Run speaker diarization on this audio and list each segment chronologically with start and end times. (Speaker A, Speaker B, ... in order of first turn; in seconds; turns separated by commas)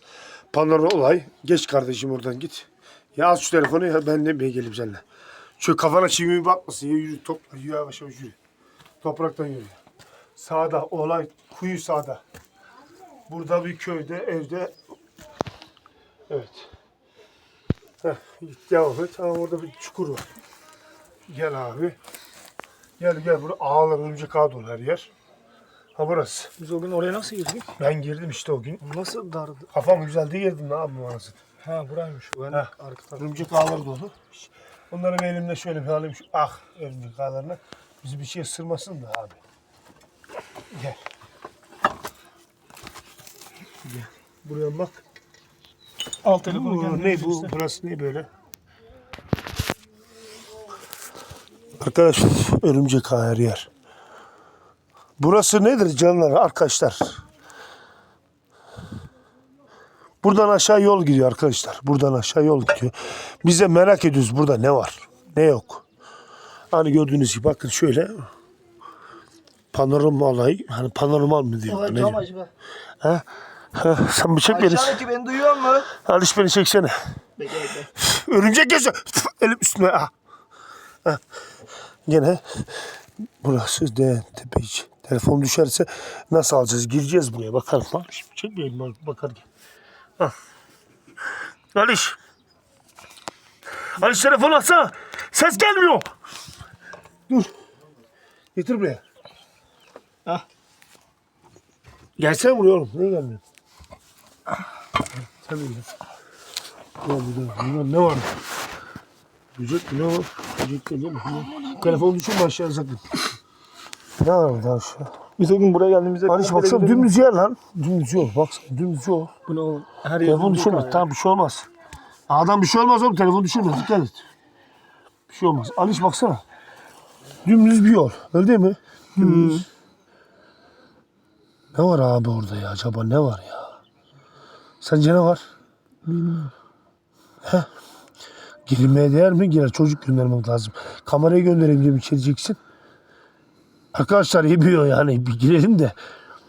Speaker A: 0.5-5.0, Speaker A: 5.6-8.3, Speaker A: 9.0-9.8, Speaker A: 10.3-12.2, Speaker A: 13.3-14.7, Speaker A: 16.3-16.7, Speaker A: 18.0-20.2, Speaker A: 21.3-22.0, Speaker A: 23.0-25.1, Speaker A: 25.9-26.5, Speaker B: 26.6-27.7, Speaker A: 27.8-28.8, Speaker B: 28.8-29.7, Speaker A: 29.7-31.4, Speaker B: 31.6-33.4, Speaker A: 32.5-34.4, Speaker A: 34.9-39.4, Speaker A: 40.7-41.0, Speaker A: 43.8-45.0, Speaker B: 46.2-47.5, Speaker A: 46.4-48.3, Speaker A: 51.8-53.7, Speaker A: 55.2-57.2, Speaker A: 60.2-65.8, Speaker A: 66.7-68.3, Speaker A: 69.7-72.2, Speaker B: 71.7-72.5, Speaker A: 73.0-75.1, Speaker B: 74.5-75.9, Speaker A: 75.9-77.0, Speaker B: 77.4-77.9, Speaker A: 77.9-80.1, Speaker A: 82.0-82.7, Speaker A: 83.4-89.5, Speaker A: 91.7-92.2, Speaker A: 93.9-96.1, Speaker A: 98.5-99.0, Speaker A: 102.2-103.4, Speaker A: 105.4-105.9, Speaker A: 107.0-108.3, Speaker A: 109.5-113.1, Speaker A: 114.2-115.1, Speaker B: 115.4-117.1, Speaker A: 116.3-119.3, Speaker B: 119.5-121.1, Speaker A: 120.2-121.7, Speaker A: 122.3-124.2, Speaker A: 125.3-126.4, Speaker A: 127.4-129.6, Speaker B: 129.2-129.6, Speaker A: 131.7-133.8, Speaker A: 134.8-135.4, Speaker B: 136.1-136.5, Speaker A: 138.7-142.6, Speaker A: 143.9-145.9